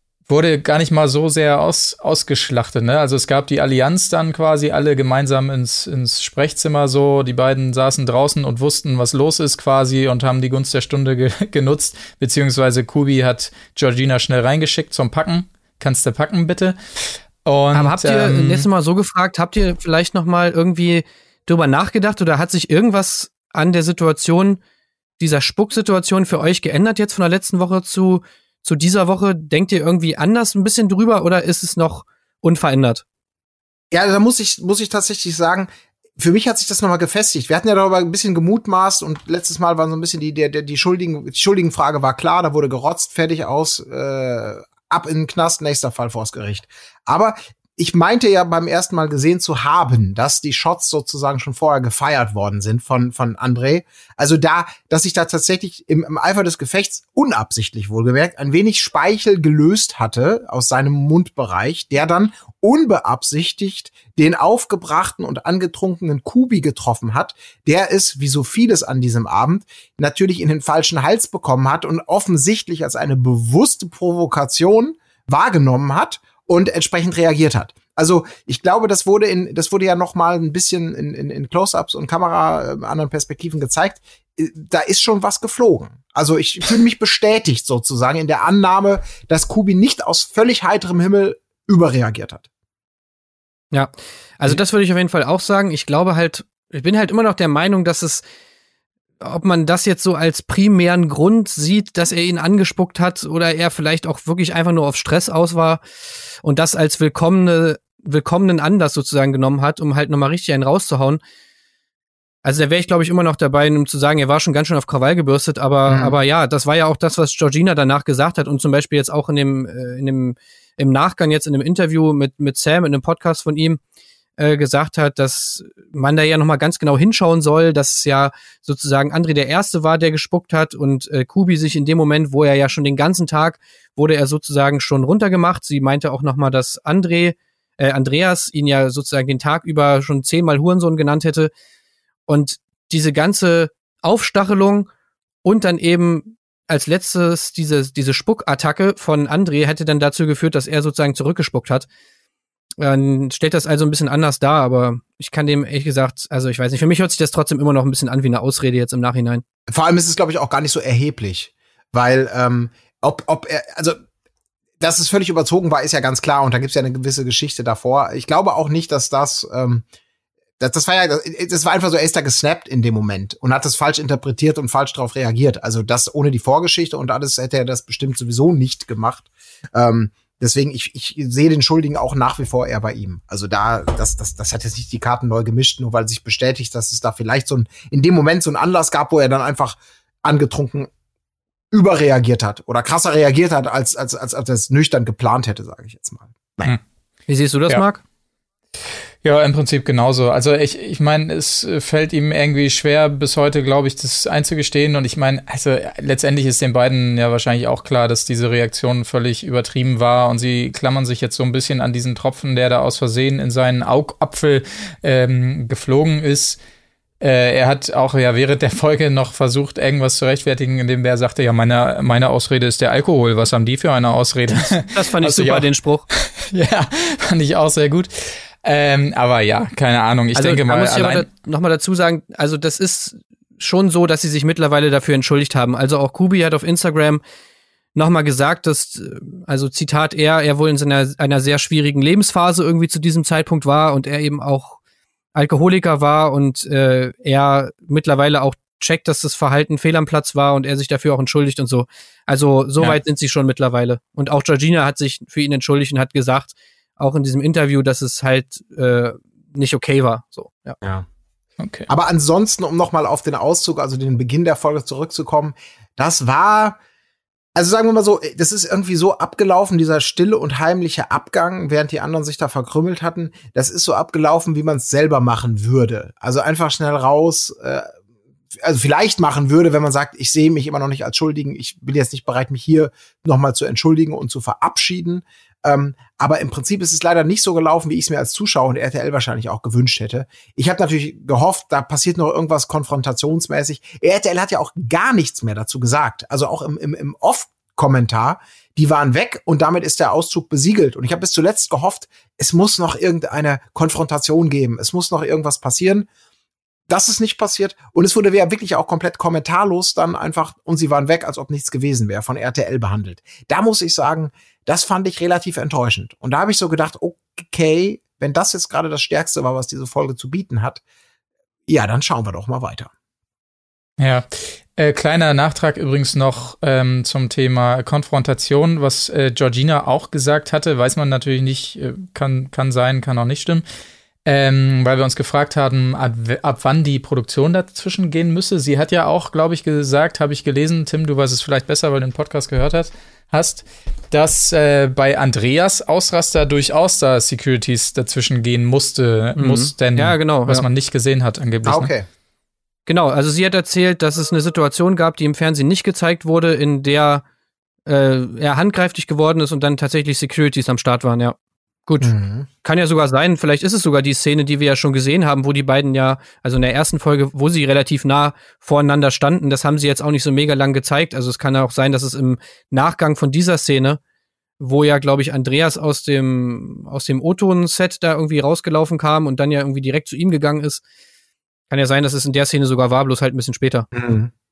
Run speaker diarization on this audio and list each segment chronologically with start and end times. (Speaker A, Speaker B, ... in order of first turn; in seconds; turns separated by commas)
Speaker A: 0.3-16.8, Speaker A: 17.4-18.6, Speaker B: 17.7-24.6, Speaker B: 25.2-33.0, Speaker C: 33.9-92.4, Speaker B: 93.7-98.2, Speaker B: 99.2-105.8, Speaker B: 106.4-111.2, Speaker B: 112.4-123.8, Speaker C: 115.9-116.1, Speaker B: 124.4-141.5, Speaker B: 142.3-144.9, Speaker B: 145.4-151.9, Speaker B: 152.8-159.4, Speaker C: 159.7-164.0, Speaker C: 164.8-169.8, Speaker C: 170.6-190.9, Speaker C: 191.7-196.8, Speaker B: 197.3-198.0, Speaker A: 199.2-216.6, Speaker A: 217.2-231.3, Speaker B: 224.8-226.0, Speaker B: 230.3-237.2, Speaker B: 237.9-244.8, Speaker B: 245.3-260.8, Speaker A: 261.6-261.9, Speaker C: 261.9-266.8, Speaker C: 267.5-277.9, Speaker C: 278.6-306.1, Speaker C: 306.9-320.8, Speaker C: 321.7-322.9, Speaker A: 324.0-333.6, Speaker A: 334.2-351.9, Speaker B: 349.4-350.6, Speaker C: 351.6-352.1, Speaker B: 352.9-357.2, Speaker B: 357.9-374.0, Speaker C: 362.0-362.5, Speaker B: 374.6-380.8, Speaker B: 381.7-383.9, Speaker C: 383.9-384.3